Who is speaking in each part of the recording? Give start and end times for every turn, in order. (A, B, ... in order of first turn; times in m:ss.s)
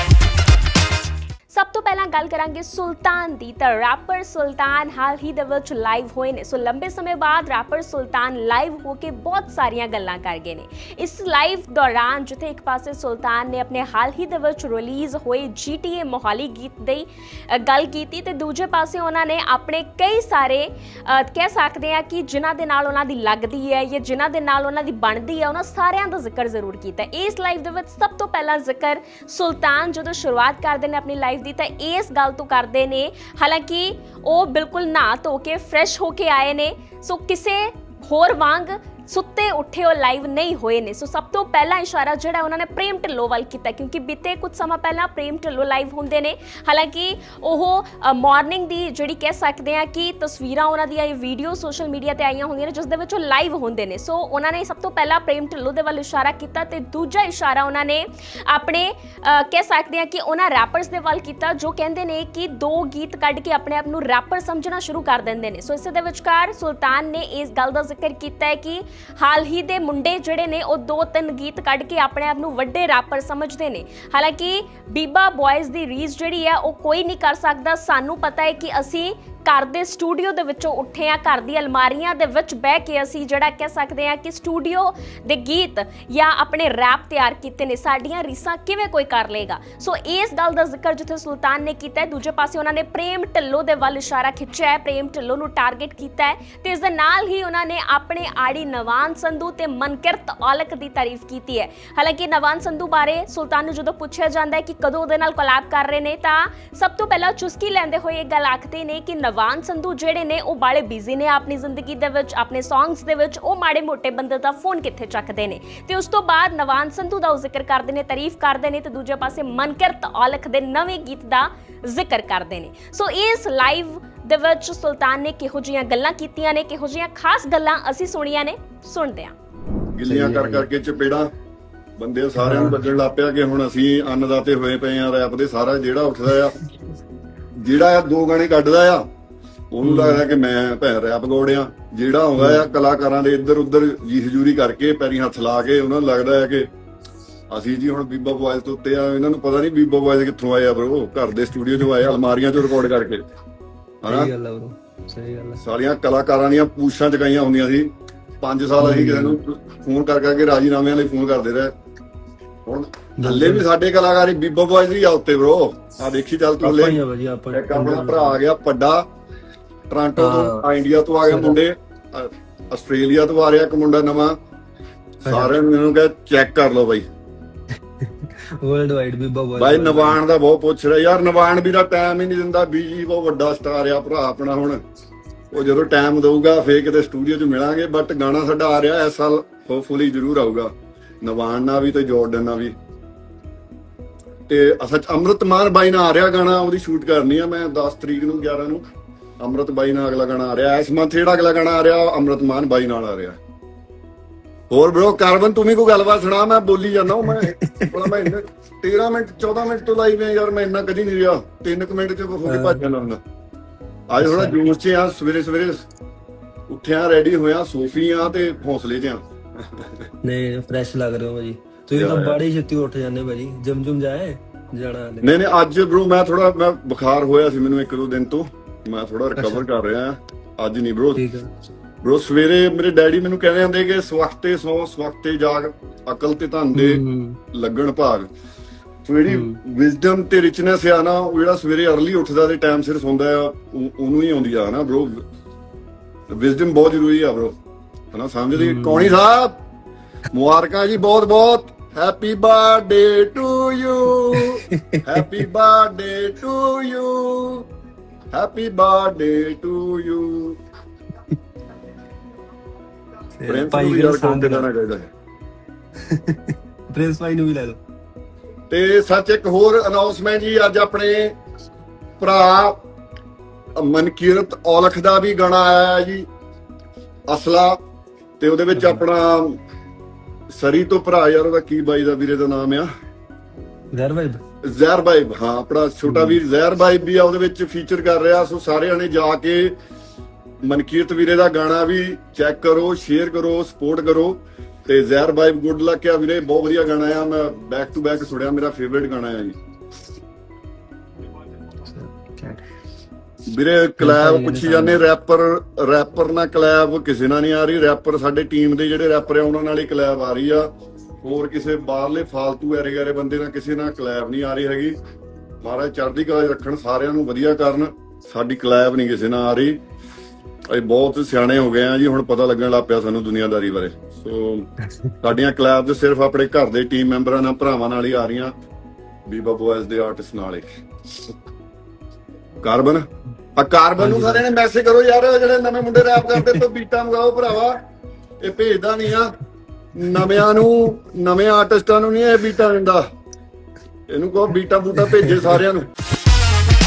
0:01.5-2:09.3 A
2:10.0-2:11.3 B
2:10.1-2:10.7 C
2:12.0-2:16.6 B
2:12.4-2:12.8 C
2:17.6-2:19.0 B
2:19.7-2:26.7 B
2:19.8-2:20.2 C
2:27.5-2:33.2 B
2:34.0-2:34.3 B
2:34.0-2:35.6 C
2:35.6-2:41.7 B
2:38.8-2:39.4 C
2:42.7-2:47.0 B
2:43.2-2:43.6 C
2:46.6-2:48.4 C
2:47.5-2:49.0 B
2:49.9-2:54.4 B
2:50.2-2:50.7 C
2:51.3-2:51.6 C
2:55.2-2:55.6 C
2:55.2-2:57.0 B
2:58.0-3:00.2 C
2:59.6-3:04.8 B
3:05.5-3:10.7 B
3:11.2-3:12.8 B
3:14.5-3:18.8 B
3:19.4-3:23.4 B
3:24.7-3:33.2 B
3:27.2-3:28.1 C
3:32.5-3:32.8 C
3:34.1-3:35.8 B
3:34.2-3:34.6 C
3:36.7-3:40.0 B
3:40.2-3:45.3 C
3:41.9-3:42.4 B
3:45.2-3:51.2 B
3:49.4-3:49.7 C
3:51.2-3:51.5 C
3:52.0-3:57.0 B
3:56.8-3:57.4 C
3:57.5-3:58.3 B
3:59.1-4:05.2 B
3:59.3-3:59.6 C
4:06.3-4:07.6 B
4:08.1-4:09.6 B
4:08.6-4:09.2 C
4:10.3-4:17.7 B
4:14.4-4:15.0 C
4:18.3-4:20.6 B
4:23.4-4:24.7 C
4:23.5-4:25.1 B
4:26.1-4:27.8 C
4:28.7-4:31.4 B
4:32.2-4:32.8 B
4:33.8-4:36.3 B
4:37.3-4:37.8 B
4:38.4-4:39.6 B
4:40.5-4:42.9 B
4:43.9-4:44.4 C
4:44.7-4:49.8 B
4:46.1-4:46.4 C
4:50.6-4:59.6 B
5:01.9-5:02.6 C
5:03.5-5:10.7 B
5:04.0-5:05.0 C
5:11.2-5:15.0 B
5:15.6-5:19.8 B
5:20.7-5:24.7 B
5:25.2-5:28.5 B
5:29.3-5:30.6 B
5:32.6-5:37.8 B
5:38.4-5:39.4 B
5:40.0-5:43.0 B
5:44.1-5:45.9 B